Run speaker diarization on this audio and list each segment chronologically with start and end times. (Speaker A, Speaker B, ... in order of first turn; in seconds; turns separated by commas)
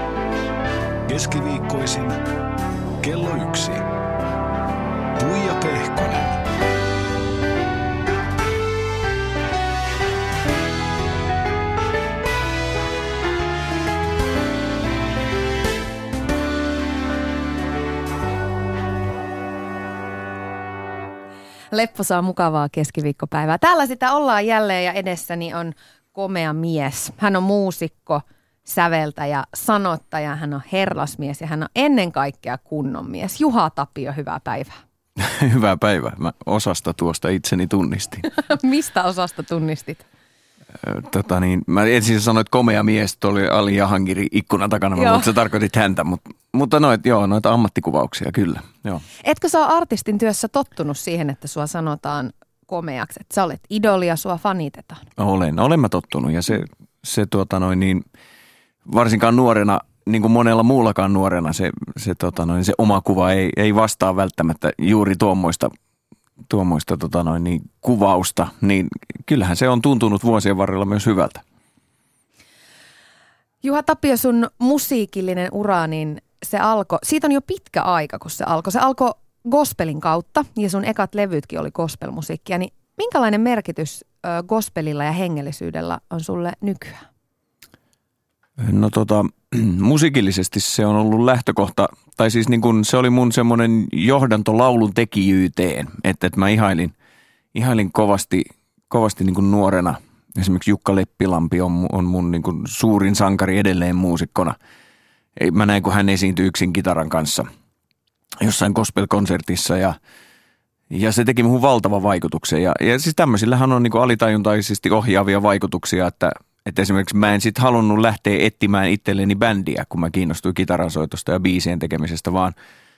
Speaker A: 1.1-2.2, Speaker A: 3.0-3.8, Speaker A: 5.2-6.4, Speaker B: 21.7-34.8, Speaker C: 35.2-38.3, Speaker B: 38.3-40.1, Speaker C: 40.8-49.0, Speaker B: 44.9-45.3, Speaker B: 49.2-55.1, Speaker C: 55.2-58.0, Speaker C: 58.9-65.7, Speaker C: 66.5-71.4, Speaker B: 73.6-87.0, Speaker C: 88.6-96.9, Speaker C: 97.5-104.5, Speaker C: 105.4-107.5, Speaker C: 108.4-110.0, Speaker C: 110.9-122.5